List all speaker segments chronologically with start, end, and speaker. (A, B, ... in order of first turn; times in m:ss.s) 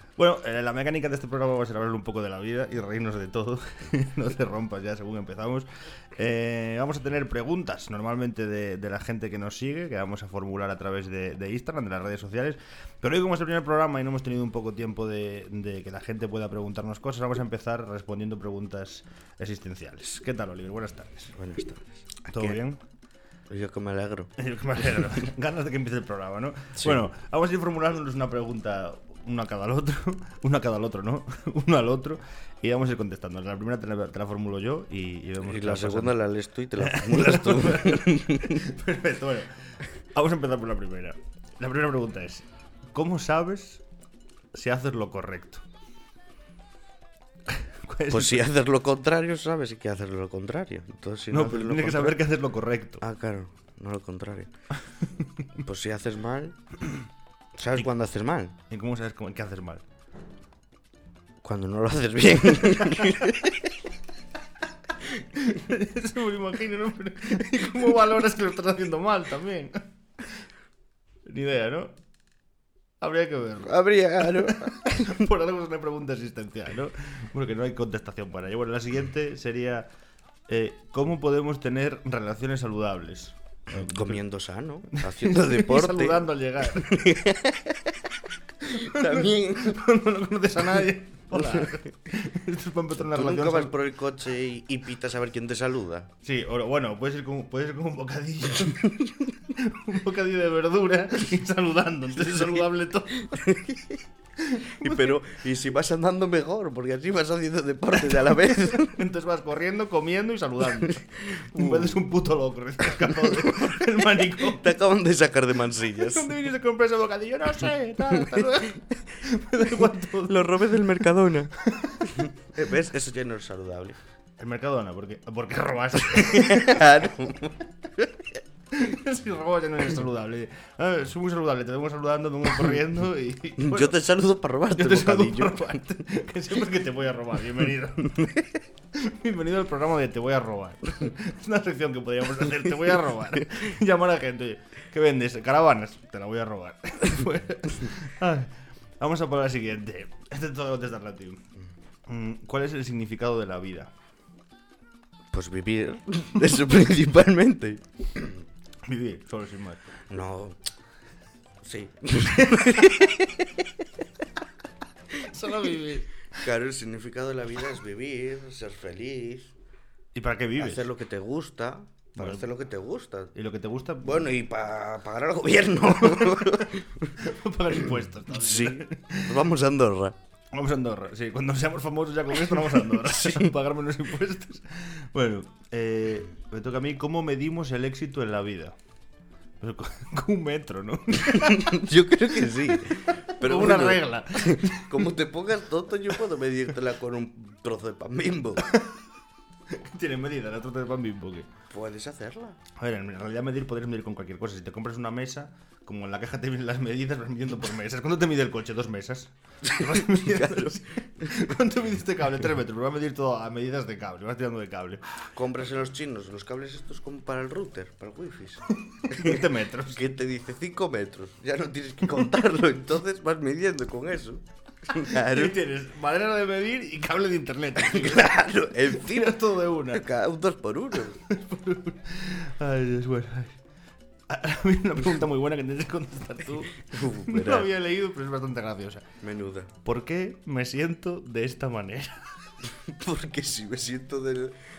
0:00.2-0:21.3 A
0:21.3-0:22.6 B
0:22.3-0:22.8 A
0:23.5-0:24.3 B
0:24.4-0:36.2 A
0:35.4-0:38.6 B
0:36.8-0:43.8 A
0:44.5-0:45.6 A
0:47.5-0:48.5 A
0:48.1-0:52.2 B
0:51.3-0:53.0 A
0:53.0-0:54.5 B
0:55.0-0:55.5 A
0:55.6-0:56.6 B
0:57.5-0:58.6 B
0:58.7-0:59.8 A
1:01.4-1:03.7 B
1:05.3-1:10.4 A
1:11.2-1:11.9 A
1:13.0-1:19.9 A
1:13.6-1:15.0 B
1:20.5-1:24.2 A
1:23.7-1:29.8 B
1:24.9-1:27.1 A
1:28.6-1:33.7 A
1:31.3-1:31.8 B
1:33.0-1:36.1 B
1:36.2-1:43.4 A
1:42.2-1:44.0 B
1:44.4-1:45.2 A
1:44.8-1:49.0 B
1:48.0-1:54.7 A
1:51.2-1:52.0 B
1:52.9-1:56.3 B
1:56.0-2:00.7 A
2:00.2-2:04.0 B
2:01.6-2:02.1 A
2:04.4-2:07.1 A
2:06.0-2:08.1 B
2:08.7-2:14.0 A
2:13.6-2:15.8 B
2:14.7-2:31.4 A
2:32.1-2:33.9 A
2:35.3-2:38.3 B
2:38.8-2:39.8 A
2:40.1-2:40.6 B
2:41.6-2:43.7 B
2:45.2-2:46.1 A
2:45.2-2:45.6 B
2:46.3-2:49.5 B
2:50.1-2:50.9 A
2:50.6-2:53.3 B
2:52.2-2:52.4 A
2:53.3-2:54.3 A
2:54.0-2:57.1 B
2:56.0-2:59.4 A
2:58.3-3:00.1 B
3:00.5-3:08.8 A
3:02.8-3:03.4 B
3:09.6-3:11.8 A
3:11.3-3:18.7 B
3:13.4-3:15.1 A
3:18.6-3:19.0 A
3:19.7-3:21.5 A
3:21.7-3:22.6 B
3:22.8-3:35.0 A
3:29.6-3:31.6 B
3:35.3-3:45.5 B
3:38.7-3:40.1 A
3:45.0-3:50.0 A
3:47.7-3:51.2 B
3:51.2-3:53.6 A
3:54.3-3:59.0 A
3:56.8-3:57.7 B
3:59.2-3:59.7 B
3:59.8-4:02.3 A
4:02.6-4:04.6 B